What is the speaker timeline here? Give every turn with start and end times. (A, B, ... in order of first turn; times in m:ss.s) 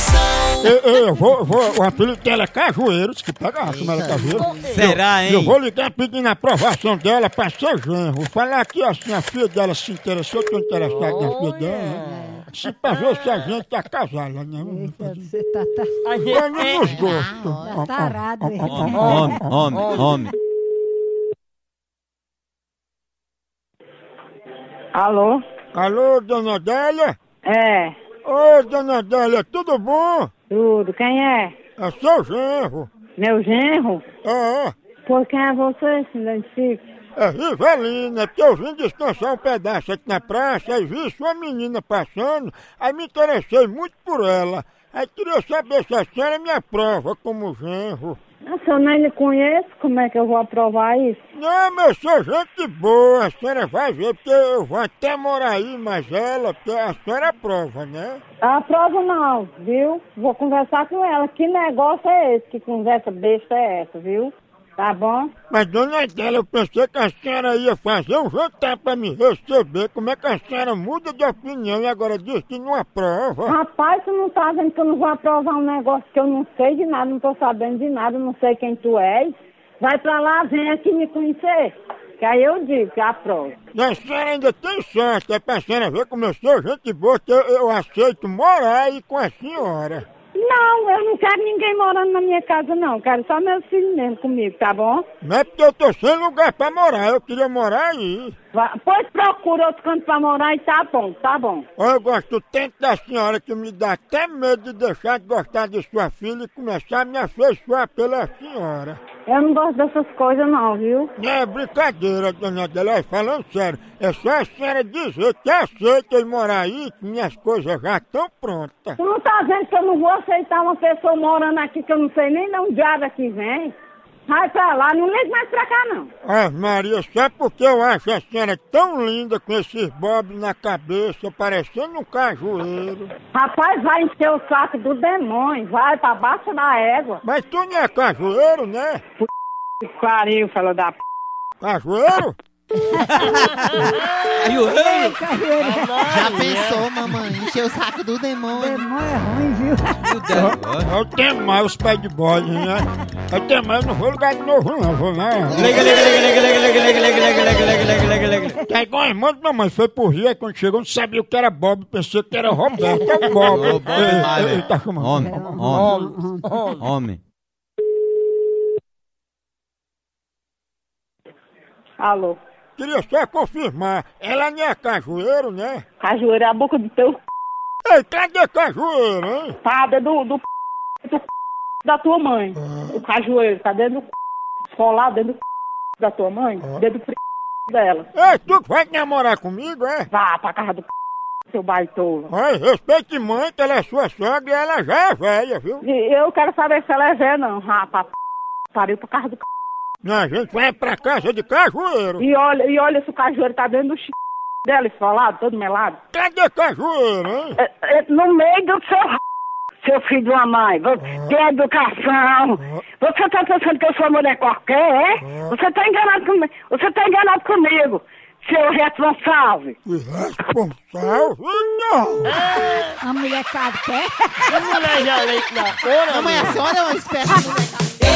0:00.6-0:15.3 A
0:03.6-0:04.6 B
0:04.7-0:05.6 C
0:11.0-0:12.2 D
0:12.0-0:12.4 E
0:14.6-0:15.9 E
0:16.1-0:16.9 D
0:16.2-0:19.6 A
0:16.7-0:17.8 B
0:17.6-0:20.2 E
0:18.6-0:20.3 C
0:19.7-0:20.0 D
0:24.9-0:25.4 F
0:25.7-0:27.2 A
0:27.4-0:27.9 F
0:28.2-0:30.3 A
0:30.5-0:31.5 F
0:31.8-0:32.9 A
0:33.2-0:34.0 F
0:34.2-0:34.7 A
0:35.1-0:36.8 F
0:37.2-0:48.2 A
0:48.5-0:51.2 F
0:51.3-0:58.2 A
0:58.4-1:05.3 F
1:05.5-1:13.6 A
1:13.5-1:23.5 F
1:23.7-1:30.0 A
1:30.3-1:35.0 F
1:35.2-1:38.4 A
1:38.5-1:41.6 F
1:41.8-1:49.0 A
1:49.3-1:51.1 F
1:51.2-1:59.0 A
1:59.0-2:03.7 F
2:04.3-2:06.1 F
2:06.2-2:13.1 A
2:13.3-2:17.2 F
2:17.2-2:19.0 A
2:19.8-2:21.0 F
2:21.6-2:22.4 A
2:22.9-2:23.9 E
2:24.4-2:25.2 C
2:24.4-2:26.1 E
2:24.9-2:26.9 D
2:25.9-2:28.9 B
2:28.5-2:30.6 E
2:30.0-2:30.9 C
2:30.8-2:36.1 A
2:35.5-2:36.0 B
2:35.5-2:38.6 C
2:38.6-2:45.7 A
2:42.7-2:43.3 E
2:43.4-2:45.9 C
2:45.2-2:46.7 E
2:45.7-2:46.8 D
2:46.8-2:47.2 C
2:52.0-2:52.4 F
2:52.8-2:55.8 A
2:56.0-2:57.2 F
2:57.8-2:59.6 A
2:59.6-3:00.4 F
3:01.8-3:04.1 F
3:02.6-3:03.0 A
3:04.7-3:05.4 F
3:06.0-3:07.2 F
3:07.7-3:08.1 F
3:08.1-3:10.1 A
3:10.1-3:10.9 F
3:11.5-3:12.3 F
3:12.3-3:15.8 A
3:15.8-3:18.1 F
3:18.7-3:19.4 F
3:20.0-3:22.2 A
3:22.2-3:24.1 F
3:24.6-3:26.0 F
3:26.1-3:27.6 A
3:27.6-3:29.2 F
3:29.8-3:39.7 F
3:31.0-3:31.3 A
3:35.2-3:35.5 A
3:39.8-3:42.4 A
3:42.4-3:42.8 D
3:42.8-3:44.8 E
3:44.5-3:46.7 D
3:45.9-3:47.9 B